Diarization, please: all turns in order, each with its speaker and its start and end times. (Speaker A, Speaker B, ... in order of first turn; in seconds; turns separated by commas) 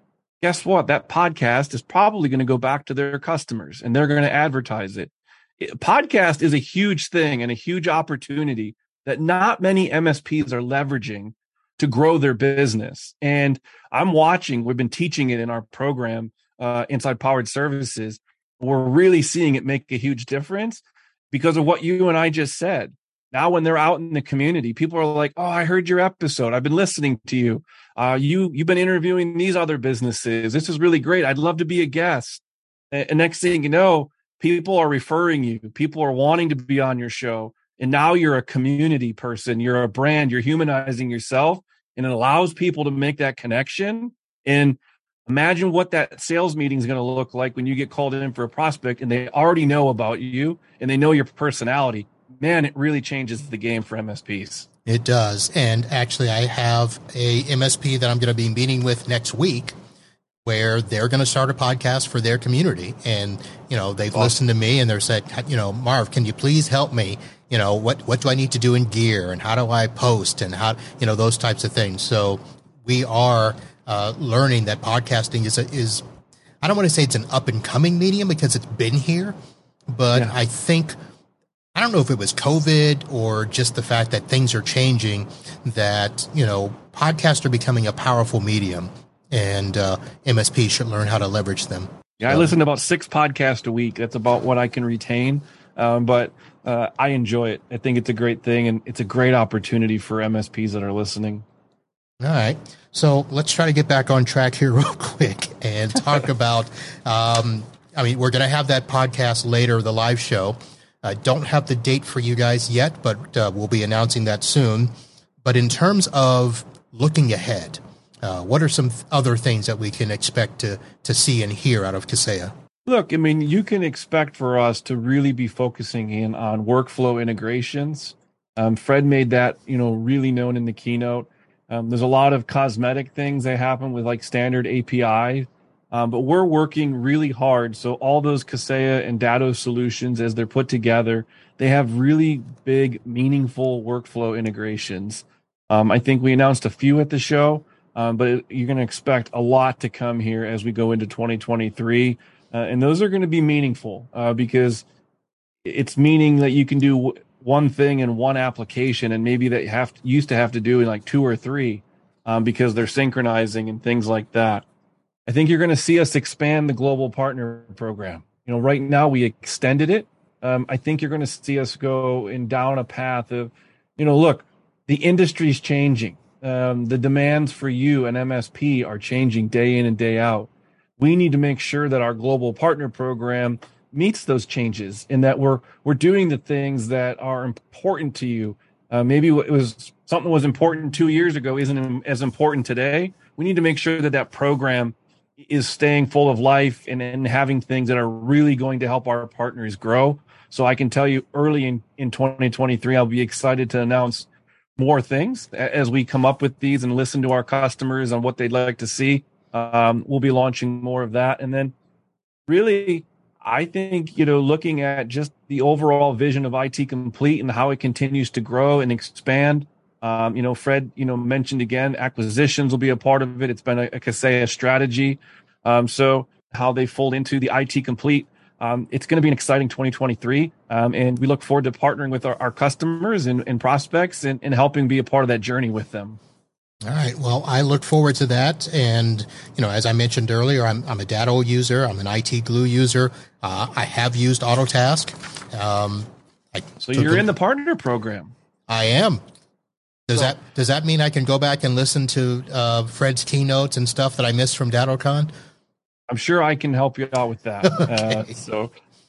Speaker A: 0.4-54.7, Speaker B: 54.9-59.7, Speaker B: 60.4-76.0, Speaker B: 76.6-79.3, Speaker B: 79.9-80.9, Speaker B: 81.7-92.5, Speaker A: 92.2-101.4, Speaker B: 102.2-114.9, Speaker B: 115.4-122.5, Speaker A: 122.8-154.8, Speaker A: 155.6-164.6, Speaker A: 165.3-211.7, Speaker A: 212.5-236.2, Speaker B: 236.8-247.3, Speaker A: 246.8-248.3, Speaker B: 248.7-249.2, Speaker B: 250.1-255.3, Speaker A: 256.1-258.7, Speaker B: 257.6-258.3